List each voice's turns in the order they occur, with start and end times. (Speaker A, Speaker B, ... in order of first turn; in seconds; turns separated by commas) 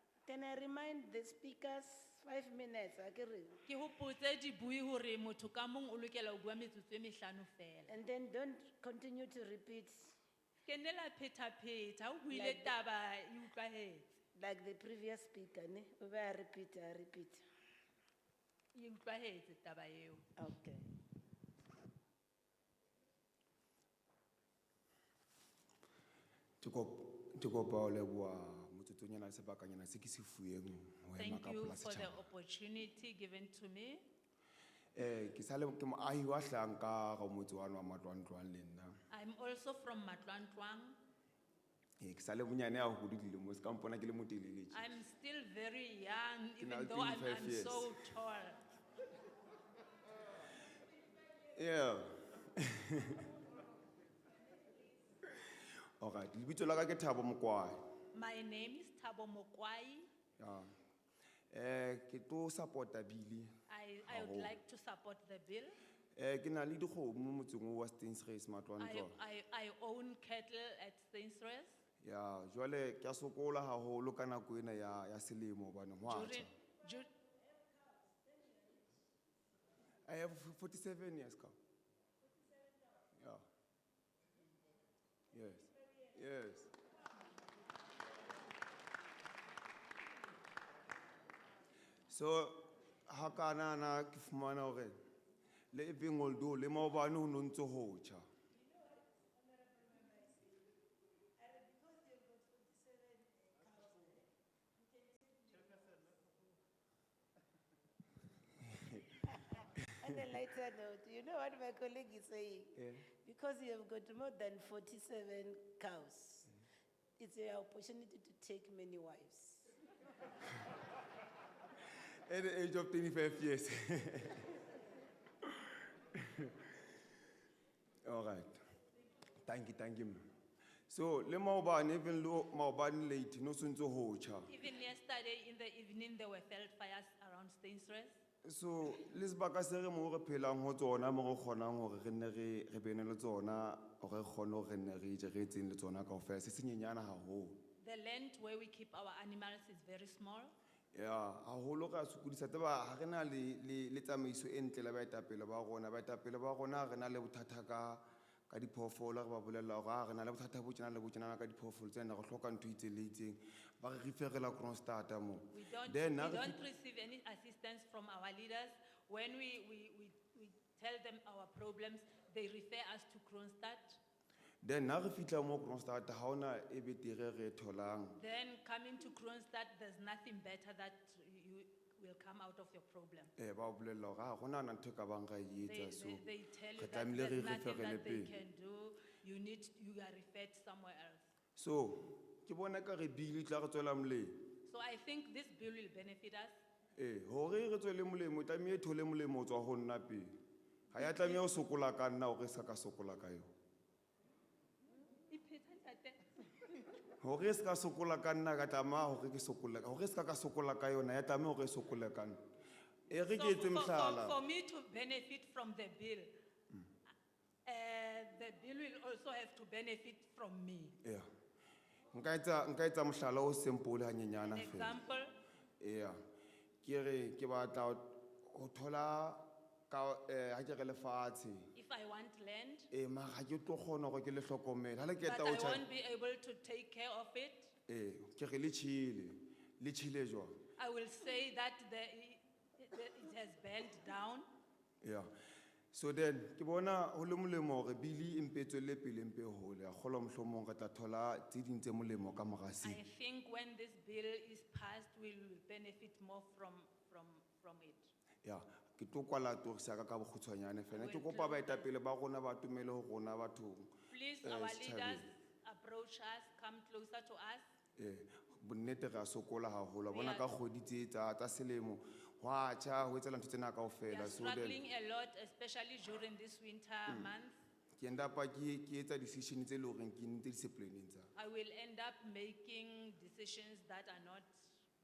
Speaker A: 0.2-3.6, Speaker B: 3.7-8.0, Speaker A: 7.9-10.2, Speaker B: 10.7-14.2, Speaker A: 12.3-12.8, Speaker A: 14.3-17.4, Speaker B: 18.7-20.3, Speaker A: 20.4-20.9, Speaker C: 26.6-32.3, Speaker B: 31.2-34.0, Speaker C: 35.0-39.0, Speaker B: 39.1-41.0, Speaker C: 42.0-44.9, Speaker B: 44.7-48.6, Speaker C: 46.6-48.0, Speaker C: 51.5-53.3, Speaker C: 55.2-57.8, Speaker B: 58.1-60.1, Speaker C: 60.4-60.7, Speaker C: 61.5-63.5, Speaker B: 63.7-65.8, Speaker C: 64.1-64.6, Speaker C: 66.2-69.2, Speaker B: 68.8-71.8, Speaker C: 72.0-76.5, Speaker B: 76.1-77.1, Speaker A: 77.6-78.9, Speaker C: 80.1-81.5, Speaker C: 83.2-83.4, Speaker C: 85.3-86.7, Speaker C: 92.1-95.0, Speaker C: 95.7-98.2, Speaker A: 99.6-100.6, Speaker A: 101.4-104.3, Speaker A: 105.0-106.0, Speaker C: 108.6-109.2, Speaker A: 109.2-116.5, Speaker C: 109.8-110.3, Speaker C: 112.8-113.1, Speaker A: 117.2-119.7, Speaker C: 121.9-124.7, Speaker C: 125.4-127.0, Speaker C: 128.1-128.6, Speaker C: 129.4-130.2, Speaker C: 130.9-134.5, Speaker B: 134.5-138.2, Speaker C: 138.4-147.6, Speaker B: 147.8-150.5, Speaker C: 150.9-166.6, Speaker B: 165.5-174.0, Speaker C: 174.6-178.2, Speaker B: 178.2-183.3, Speaker C: 183.4-186.2, Speaker B: 185.7-191.2, Speaker C: 186.8-188.3, Speaker C: 191.6-194.3, Speaker B: 194.7-196.6, Speaker C: 197.0-200.3, Speaker C: 200.9-203.5, Speaker B: 201.0-201.5, Speaker B: 205.3-206.8, Speaker C: 207.2-212.4, Speaker C: 213.1-214.4, Speaker B: 213.2-216.3, Speaker B: 217.7-220.9, Speaker C: 221.0-221.3, Speaker C: 222.1-225.0, Speaker B: 224.4-225.3, Speaker C: 225.8-226.2, Speaker C: 226.8-231.7, Speaker B: 231.8-232.9, Speaker C: 232.9-235.9, Speaker B: 235.2-237.7, Speaker C: 237.9-240.6, Speaker B: 240.8-244.5, Speaker C: 245.0-245.3, Speaker C: 245.9-253.0, Speaker B: 252.8-258.1, Speaker C: 258.4-265.3, Speaker B: 260.9-261.9, Speaker B: 264.1-267.6, Speaker C: 268.0-274.8, Speaker B: 270.1-270.5, Speaker B: 274.1-277.6, Speaker C: 277.1-277.3, Speaker C: 278.0-281.3, Speaker B: 281.4-284.7